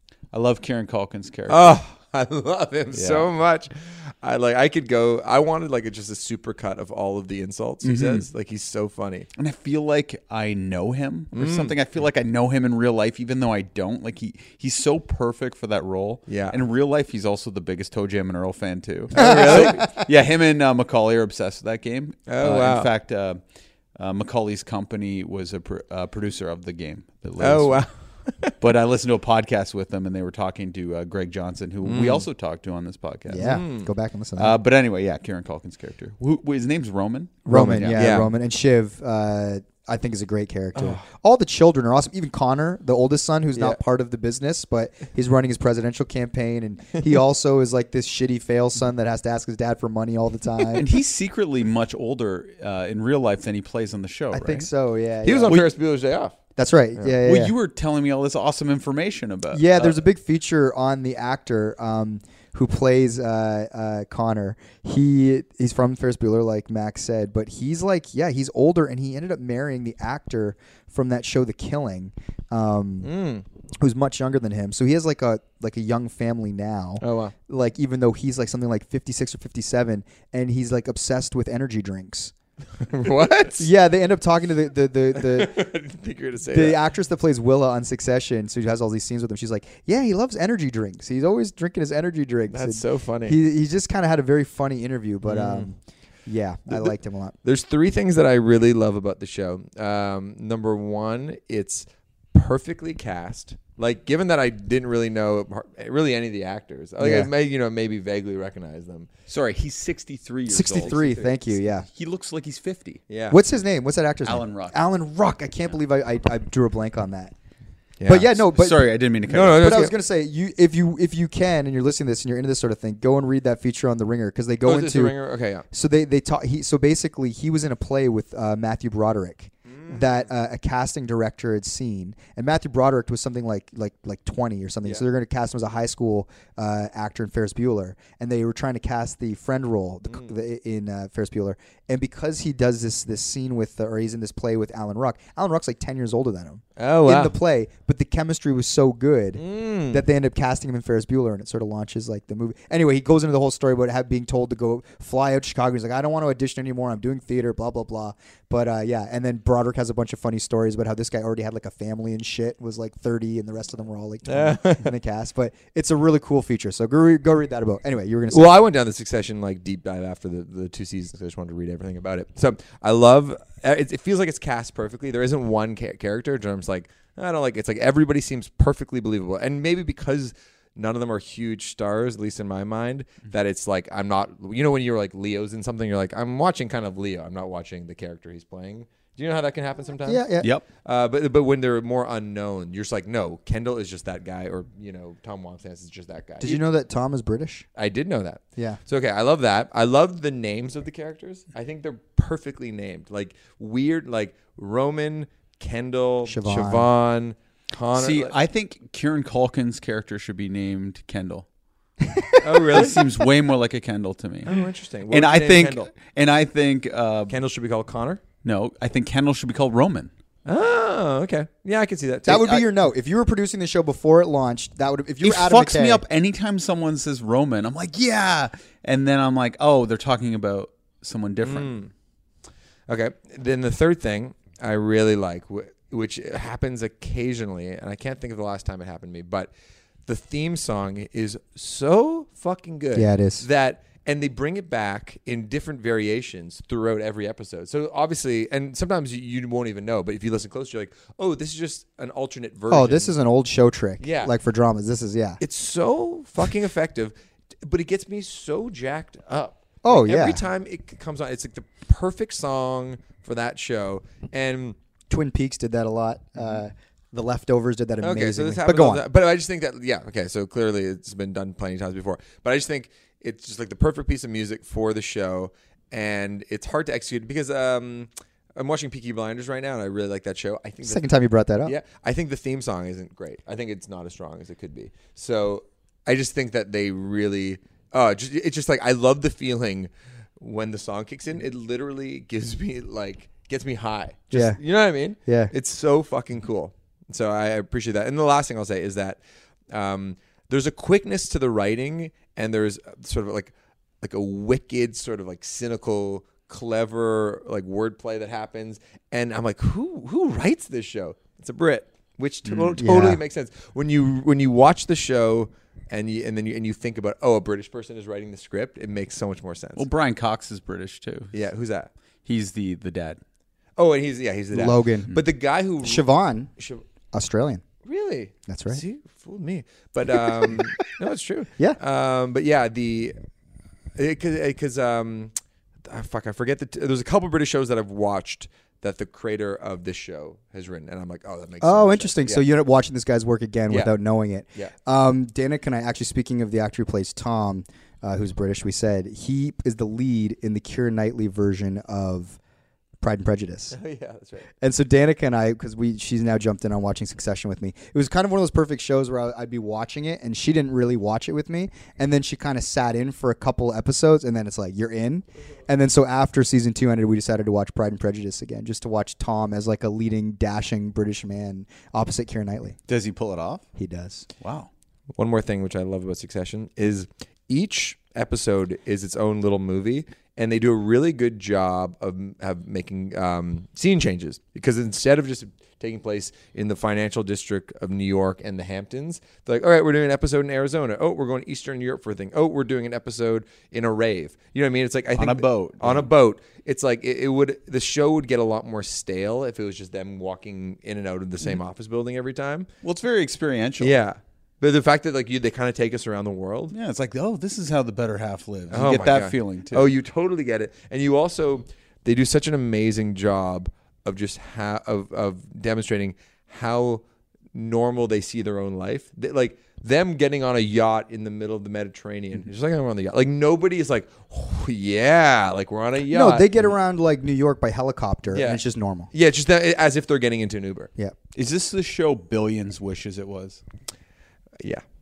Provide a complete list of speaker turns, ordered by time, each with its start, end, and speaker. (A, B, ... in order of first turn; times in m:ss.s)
0:00.3-0:01.8 A
0:01.5-0:09.3 B
0:02.9-0:03.3 A
0:07.8-0:08.2 A
0:09.4-0:23.4 A
0:11.3-0:11.7 B
0:16.3-0:16.6 B
0:19.1-0:19.9 B
0:19.1-0:20.1 C
0:22.3-0:22.9 B
0:23.9-0:27.8 A
0:27.4-0:28.5 B
0:28.6-0:33.5 A
0:31.8-0:32.2 B
0:33.3-0:34.5 C
0:33.4-0:33.9 B
0:34.4-0:38.0 A
0:37.4-0:50.8 C
0:37.5-0:38.3 B
0:40.7-0:41.0 B
0:50.8-0:54.7 A
0:54.3-0:55.6 C
0:55.2-0:56.3 B
0:56.6-0:57.5 C
0:57.2-1:00.0 A
0:59.5-1:13.1 C
1:13.0-1:13.4 B
1:13.8-1:22.3 C
1:17.0-1:17.3 B
1:22.9-1:23.7 B
1:23.6-1:25.6 C
1:25.2-1:26.8 B
1:26.5-1:37.3 C
1:32.5-1:33.4 B
1:35.2-1:35.7 B
1:36.7-1:49.1 B
1:47.0-1:47.3 C
1:49.3-1:53.0 A
1:50.5-1:51.8 C
1:53.1-1:53.4 B
1:53.3-1:57.3 C
1:54.2-1:54.8 A
1:58.0-1:58.3 B
1:58.0-1:58.9 C
1:58.1-1:59.7 A
1:59.3-1:59.9 B
1:59.6-2:05.2 C
2:04.6-2:05.6 B
2:05.7-2:48.5 C
2:09.7-2:10.1 B
2:26.8-2:27.3 B
2:29.4-2:30.0 B
2:44.2-2:44.9 B
2:48.3-3:16.6 B
3:10.0-3:10.5 C
3:16.4-3:17.6 C
3:17.8-3:28.3 B
3:26.2-3:26.9 C
3:27.9-3:31.4 A
3:32.0-3:32.5 C
3:32.4-3:33.1 B
3:32.7-3:34.6 A
3:34.4-3:35.9 B
3:35.1-3:37.4 A
3:37.3-3:38.2 B
3:38.4-3:40.1 A
3:40.4-3:42.6 B
3:42.2-3:46.0 C
3:45.2-3:51.8 A
3:51.4-3:51.9 B
3:52.9-3:59.5 B
4:00.1-4:13.1 B
4:02.9-4:03.4 C
4:12.7-4:15.4 C
4:14.0-4:14.3 B
4:15.4-4:24.7 B
4:19.8-4:20.4 C
4:25.1-4:29.0 C
4:28.0-4:41.1 B
4:40.8-4:41.8 C
4:41.6-5:19.8 B
4:54.3-4:54.6 C
4:55.2-4:55.5 C
5:12.8-5:13.2 C
5:19.8-5:21.3 A
5:21.3-5:21.9 B
5:22.2-5:23.2 A
5:23.8-5:26.8 B
5:24.5-5:25.2 C
5:25.8-5:26.5 C
5:27.1-5:27.6 C
5:27.8-5:33.1 B
5:28.5-5:28.8 C
5:30.2-5:30.7 C
5:34.0-5:35.3 B
5:35.8-5:42.4 B
5:41.6-5:52.4 C
5:53.0-5:53.8 C
5:53.7-5:54.5 B
5:54.6-6:12.8 C
6:12.9-6:13.6 A
6:13.8-6:14.2 C
6:14.4-6:14.7 A
6:15.1-6:42.7 B
6:35.1-6:36.1 A
6:42.8-6:43.9 A
6:43.8-6:46.7 B
6:46.7-6:49.9 A
6:48.7-6:57.0 B
6:57.5-7:06.5 B
7:06.1-7:09.1 C
7:08.3-7:08.6 B
7:09.1-7:10.9 B
7:11.3-7:13.6 A